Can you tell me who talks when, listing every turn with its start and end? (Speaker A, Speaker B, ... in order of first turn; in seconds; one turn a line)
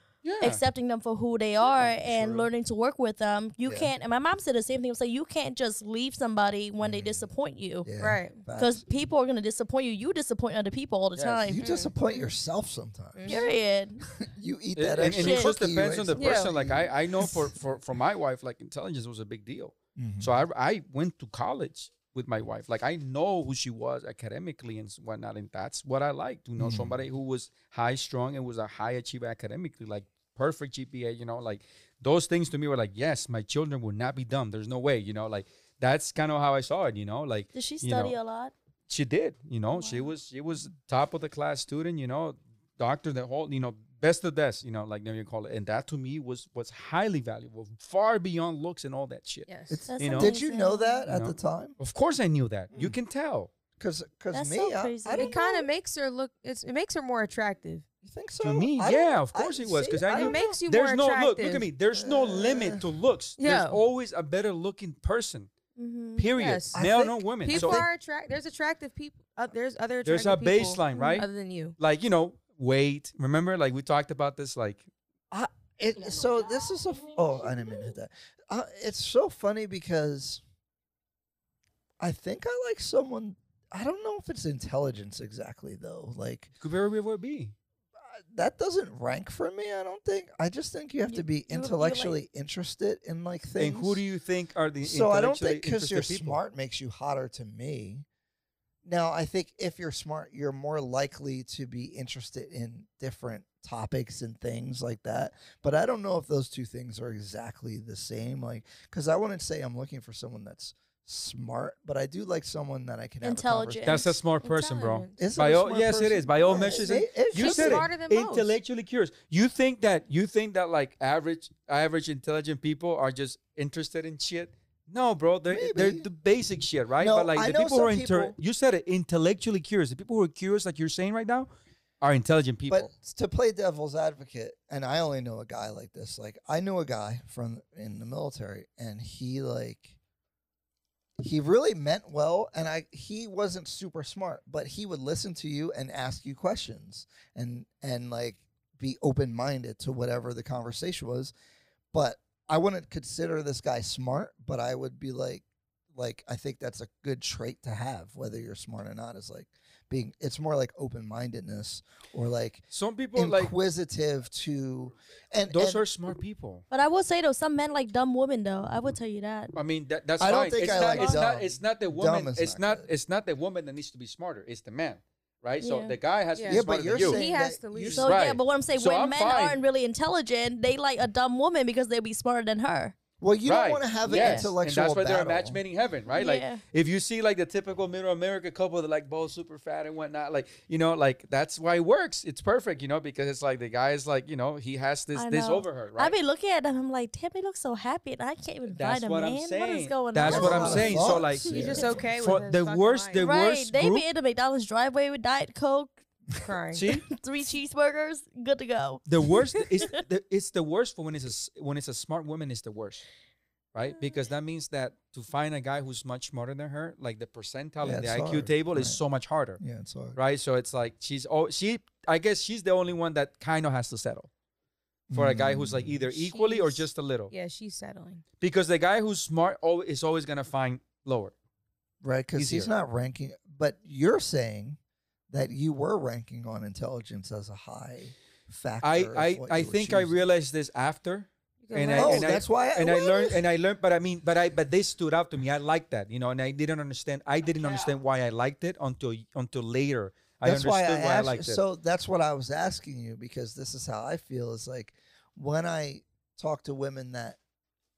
Speaker A: 0.2-0.6
Speaker B: 0.4-7.9
Speaker C: 1.7-2.5
Speaker C: 3.6-3.9
Speaker C: 6.8-7.3
Speaker C: 7.8-8.8
Speaker D: 8.0-8.4
Speaker B: 8.6-11.7
Speaker A: 11.1-11.4
Speaker C: 11.5-13.4
Speaker D: 11.6-12.3
Speaker D: 13.1-13.4
Speaker B: 13.3-14.1
Speaker C: 14.2-17.4
Speaker A: 14.8-38.1
Speaker B: 15.0-15.5
Speaker D: 16.1-16.5
Speaker C: 19.9-20.4
Speaker C: 26.6-26.9
Speaker B: 37.5-38.5
Speaker A: 38.9-50.3
Speaker B: 39.7-40.1
Speaker D: 49.5-49.8
Speaker C: 49.7-51.8
Speaker B: 49.9-51.0
Speaker A: 51.1-53.5
Speaker C: 53.8-55.4
Speaker B: 54.3-55.6
Speaker D: 55.1-57.8
Speaker C: 58.0-60.5
Speaker A: 58.4-65.5
Speaker D: 60.1-61.6
Speaker C: 61.9-62.8
Speaker D: 63.4-63.8
Speaker B: 65.8-66.3
Speaker A: 66.2-67.8
Speaker D: 66.4-66.8
Speaker C: 66.8-67.8
Speaker D: 67.4-71.8
Speaker A: 70.0-74.9
Speaker B: 70.9-71.2
Speaker C: 75.3-80.4
Speaker C: 82.0-86.5
Speaker A: 86.6-87.5
Speaker C: 88.3-94.0
Speaker B: 91.1-92.2
Speaker A: 93.6-96.4
Speaker C: 94.8-98.0
Speaker C: 98.8-114.0
Speaker B: 113.2-114.0
Speaker A: 113.8-131.5
Speaker D: 114.4-115.2
Speaker C: 115.2-117.9
Speaker D: 116.3-118.5
Speaker C: 125.5-126.0
Speaker C: 127.0-128.3
Speaker A: 132.0-132.9
Speaker C: 132.7-139.9
Speaker C: 141.2-151.3
Speaker C: 151.9-165.8
Speaker A: 162.7-163.5
Speaker A: 165.5-166.6
Speaker B: 166.7-169.5
Speaker A: 169.5-177.2
Speaker C: 170.2-172.9
Speaker D: 170.7-171.2
Speaker B: 175.6-175.9
Speaker D: 176.3-178.1
Speaker C: 176.5-178.1
Speaker B: 178.0-182.9
Speaker A: 178.0-179.6
Speaker C: 183.2-185.6
Speaker A: 183.4-196.1
Speaker B: 184.1-184.5
Speaker B: 186.1-186.6
Speaker B: 195.1-201.1
Speaker A: 198.7-204.1
Speaker C: 200.2-202.0
Speaker D: 201.4-203.2
Speaker B: 203.2-206.0
Speaker D: 206.4-206.8
Speaker A: 206.7-207.1
Speaker B: 207.1-209.0
Speaker A: 209.1-213.1
Speaker A: 213.7-219.6
Speaker C: 217.8-219.0
Speaker C: 219.6-220.2
Speaker A: 220.1-224.3
Speaker C: 225.1-226.3
Speaker A: 225.1-227.3
Speaker D: 226.3-228.2
Speaker A: 228.4-231.3
Speaker C: 232.0-234.8
Speaker A: 232.3-232.7
Speaker C: 235.3-240.2
Speaker A: 238.8-251.6
Speaker D: 241.6-242.3
Speaker C: 242.0-243.4
Speaker C: 250.4-257.4